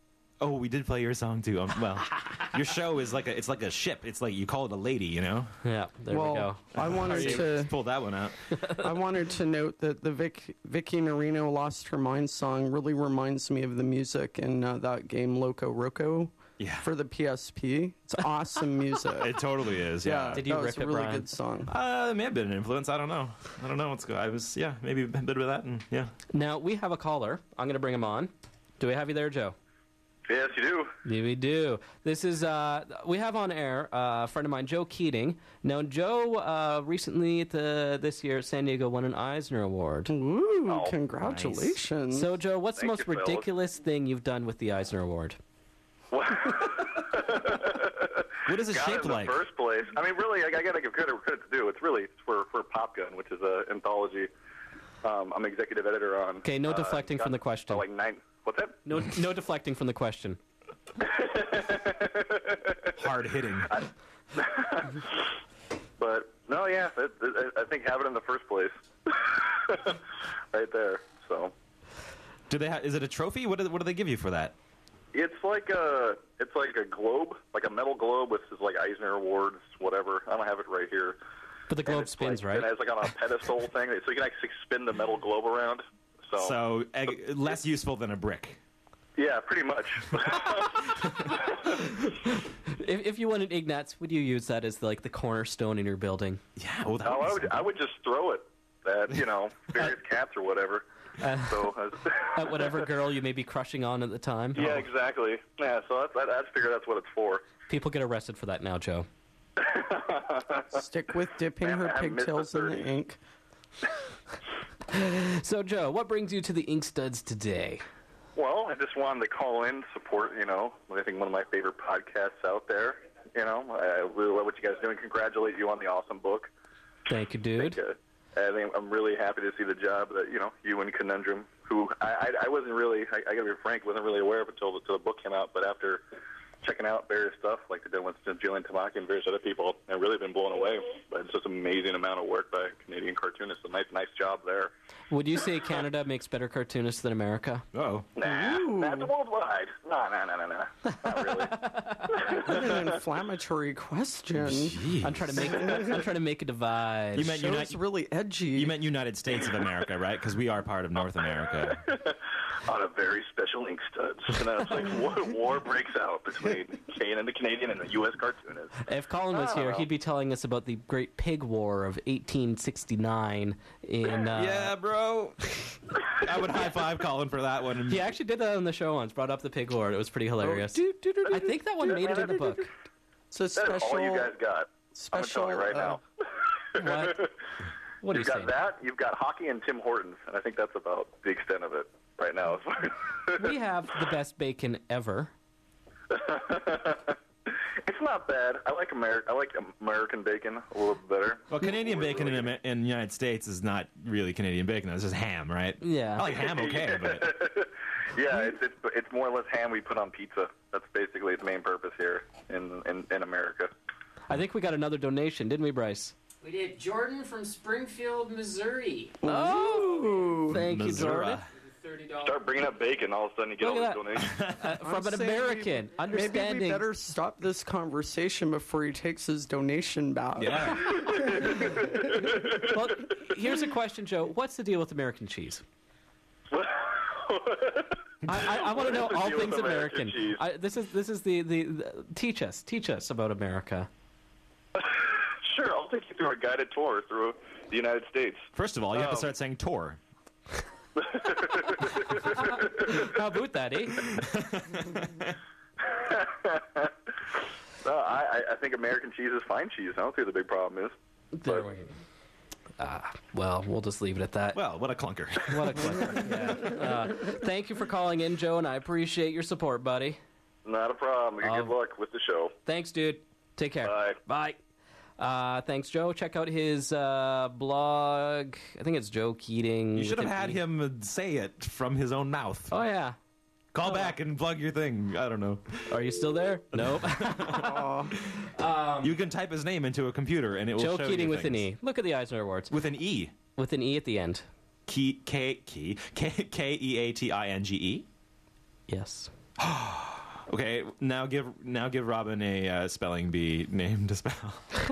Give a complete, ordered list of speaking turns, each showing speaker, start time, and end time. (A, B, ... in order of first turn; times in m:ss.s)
0:00.4-0:05.6 A
0:05.6-0:07.5 B
0:06.1-0:07.7 C
0:06.8-0:08.6 A
0:08.7-0:19.4 C
0:16.6-0:16.9 A
0:19.2-0:20.5 A
0:20.0-0:21.7 C
0:20.3-0:21.3 B
0:21.7-0:26.1 A
0:26.3-0:29.6 B
0:30.3-0:30.9 D
0:31.0-0:40.1 B
0:40.1-0:42.4 C
0:40.7-0:40.9 D
0:41.2-0:41.8 A
0:42.1-0:45.4 B
0:42.8-0:43.5 D
0:46.1-0:54.3 D
0:48.5-0:49.4 A
0:55.0-0:58.8 D
0:56.4-0:57.8 B
0:58.8-1:00.4 B
1:01.0-1:02.9 D
1:03.0-1:03.8 A
1:03.7-1:05.2 D
1:06.0-1:10.0 D
1:10.5-1:11.5 D
1:12.5-1:14.6 A
1:15.1-1:21.2 D
1:21.7-1:22.8 B
1:21.8-1:26.6 D
1:26.4-1:28.6 A
1:29.2-1:31.7 D
1:32.7-1:36.4 B
1:36.6-1:37.7 A
1:37.0-1:42.8 D
1:41.2-1:41.7 B
1:42.3-1:44.9 B
1:44.6-1:47.5 D
1:47.7-1:49.1 B
1:49.6-1:50.8 D
1:50.7-1:53.2 C
1:51.6-1:52.8 D
1:54.9-1:57.8 B
1:58.4-2:06.5 D
2:07.1-2:07.8 B
2:07.6-2:16.0 D
2:16.6-2:24.7 D
2:25.1-2:27.6 B
2:27.7-2:28.1 A
2:28.2-2:33.0 D
2:28.2-2:29.1 C
2:31.5-2:32.2 B
2:32.3-2:34.8 C
2:34.4-2:35.6 A
2:35.0-2:37.3 B
2:37.2-2:37.8 A
2:37.2-2:38.8 C
2:38.6-2:41.8 A
2:41.7-2:48.8 D
2:48.9-2:54.7 B
2:49.3-2:49.9 D
2:54.3-2:58.2 A
2:57.9-3:02.7 B
3:00.4-3:01.4 C
3:01.3-3:02.6 D
3:03.3-3:04.3 C
3:03.6-3:06.0 D
3:04.9-3:06.0 C
3:06.8-3:07.3 B
3:06.8-3:07.3 D
3:08.0-3:08.6 B
3:08.1-3:13.5 D
3:13.4-3:15.3 B
3:16.1-3:22.5 D
3:21.5-3:27.4 A
3:25.8-3:26.3 B
3:26.3-3:33.7 D
3:34.3-3:36.2 B
3:36.4-3:39.2 E
3:39.2-3:40.6 C
3:39.3-3:41.4 B
3:39.9-3:40.4 E
3:40.5-3:41.5 A
3:41.6-3:42.6 E
3:42.2-3:44.4 D
3:43.6-3:46.9 B
3:44.3-3:44.7 A
3:44.8-3:51.8 C
3:50.4-3:51.3 A
3:50.9-3:52.7 D
3:52.6-3:55.6 B
3:56.5-4:00.4 D
3:58.3-4:03.9 B
4:04.8-4:09.3 D
4:08.6-4:10.0 A
4:11.0-4:13.1 D
4:12.3-4:14.1 B
4:14.0-4:15.4 A
4:15.8-4:16.9 D
4:17.8-4:20.9 D
4:21.4-4:22.0 B
4:22.8-4:24.6 B
4:24.6-4:26.7 A
4:25.5-4:30.2 B
4:30.7-4:32.5 D
4:31.4-4:31.7 B
4:32.7-4:34.6 B
4:33.8-4:34.2 D
4:35.2-4:40.6 B
4:40.0-4:42.7 A
4:42.7-4:43.2 B
4:43.7-4:46.2 A
4:43.8-4:44.1 B
4:45.9-4:47.9 B
4:46.7-4:48.5 A
4:47.5-4:48.2 C
4:48.6-4:49.1 B
4:49.0-4:51.6 A
4:50.8-4:52.7 B
4:52.7-4:53.3 A
4:53.6-4:54.4 B
4:54.9-4:58.1 A
4:58.9-4:59.3 B
4:59.6-5:04.7 A